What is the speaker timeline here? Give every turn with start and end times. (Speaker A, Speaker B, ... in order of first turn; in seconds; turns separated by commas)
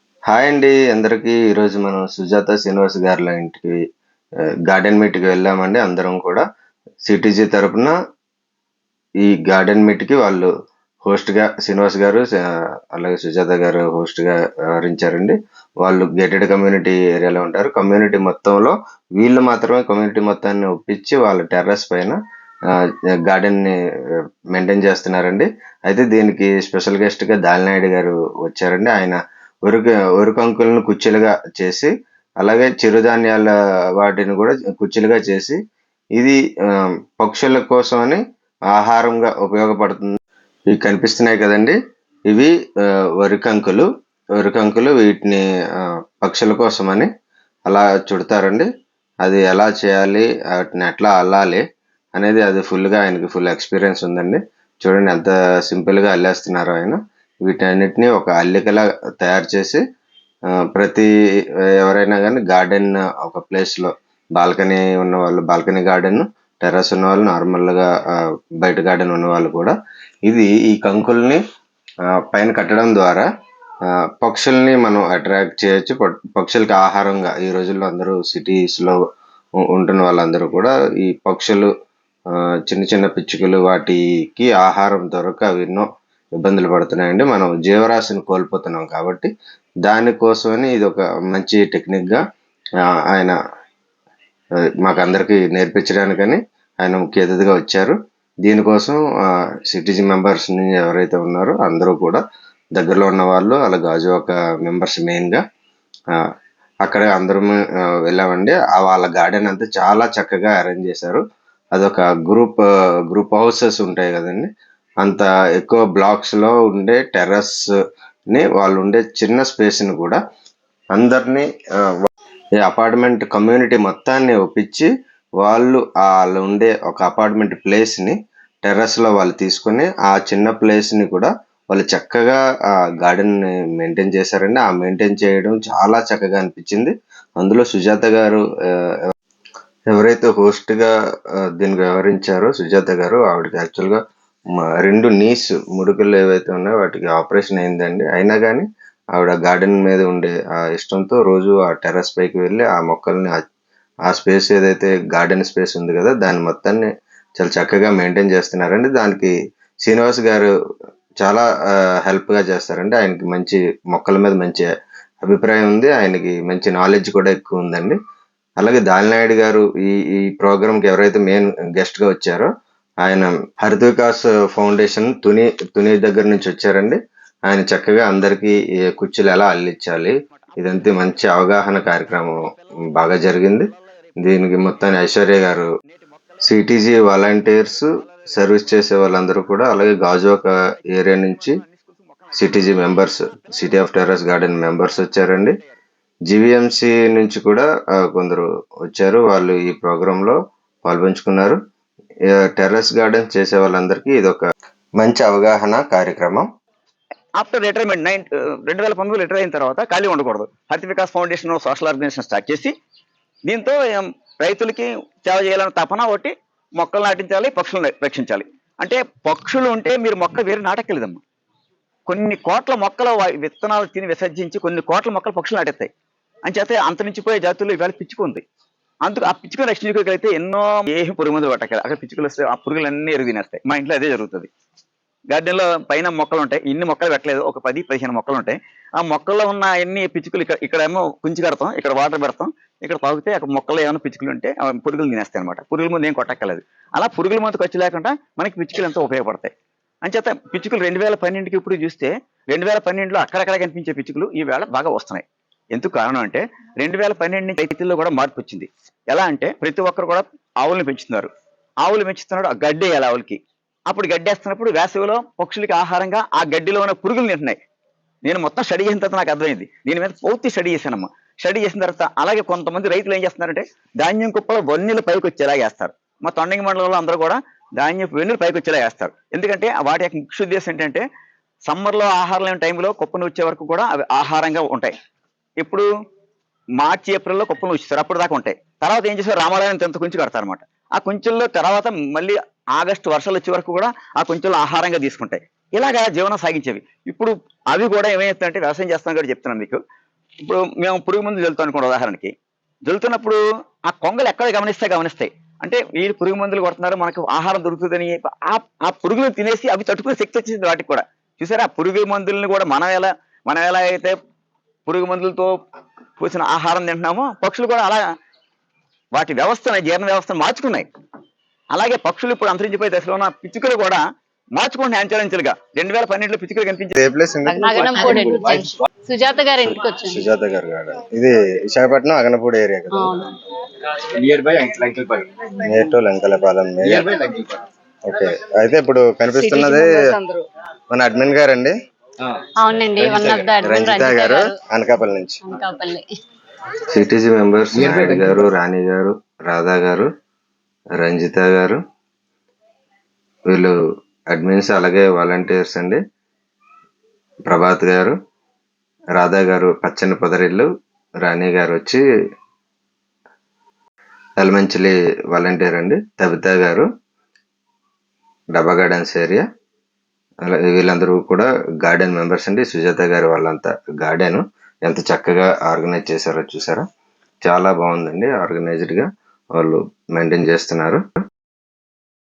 Speaker A: 0.3-3.8, Speaker A: 4.7-6.4, Speaker A: 7.0-7.9, Speaker A: 9.2-10.5, Speaker A: 11.0-12.4, Speaker A: 12.9-22.2, Speaker A: 23.2-35.6, Speaker A: 36.1-41.8, Speaker A: 42.3-42.5, Speaker A: 43.2-43.9, Speaker A: 44.4-47.1, Speaker A: 47.7-48.7, Speaker A: 49.2-51.6, Speaker A: 52.1-59.8, Speaker A: 60.7-61.1, Speaker A: 61.6-67.9, Speaker A: 68.6-71.4, Speaker A: 72.3-73.3, Speaker A: 74.2-79.0, Speaker A: 79.6-81.7, Speaker A: 82.3-89.3, Speaker A: 89.8-92.2, Speaker A: 93.1-93.4, Speaker A: 94.8-99.0, Speaker A: 99.7-102.2, Speaker A: 102.7-105.4, Speaker A: 106.8-114.5, Speaker A: 115.0-117.6, Speaker A: 118.3-120.2, Speaker A: 120.9-124.9, Speaker A: 125.4-138.4, Speaker A: 139.9-140.9, Speaker A: 141.6-144.0, Speaker A: 144.6-153.4, Speaker A: 154.1-160.5, Speaker A: 162.0-164.7, Speaker A: 165.2-167.9, Speaker A: 168.6-172.5, Speaker A: 173.0-182.4, Speaker A: 182.9-183.7, Speaker A: 184.2-185.7, Speaker A: 186.4-191.6, Speaker B: 191.6-191.9, Speaker A: 192.3-195.5, Speaker A: 196.3-201.6, Speaker A: 202.3-204.4, Speaker A: 205.0-206.4, Speaker B: 207.4-212.7, Speaker B: 213.4-221.2, Speaker B: 222.1-225.9, Speaker B: 226.4-228.4, Speaker B: 229.0-234.5, Speaker B: 235.3-249.5, Speaker B: 250.0-261.3, Speaker B: 261.8-267.6, Speaker B: 268.2-281.0, Speaker B: 281.6-284.9, Speaker B: 285.6-285.9, Speaker B: 286.8-299.8, Speaker B: 300.4-302.3, Speaker B: 302.9-314.1, Speaker B: 314.9-315.5, Speaker B: 316.2-318.0, Speaker B: 319.1-320.9, Speaker B: 321.7-324.0, Speaker B: 324.5-326.9, Speaker A: 326.9-328.3, Speaker C: 327.5-330.2, Speaker D: 328.1-328.7, Speaker A: 329.6-333.3, Speaker C: 332.9-333.2, Speaker D: 334.1-335.2, Speaker A: 335.6-337.1, Speaker D: 336.9-337.6, Speaker A: 338.0-340.1, Speaker C: 339.4-340.4, Speaker A: 340.9-341.7, Speaker C: 342.6-344.5, Speaker A: 343.0-345.4, Speaker C: 345.4-346.1, Speaker A: 346.9-350.1, Speaker D: 347.8-348.4, Speaker A: 351.0-351.8, Speaker A: 353.5-353.8, Speaker A: 354.3-356.0, Speaker A: 357.5-358.1, Speaker A: 359.1-360.7, Speaker A: 361.2-362.0, Speaker A: 364.4-366.9, Speaker A: 368.5-369.4, Speaker A: 370.4-376.8, Speaker A: 377.4-381.0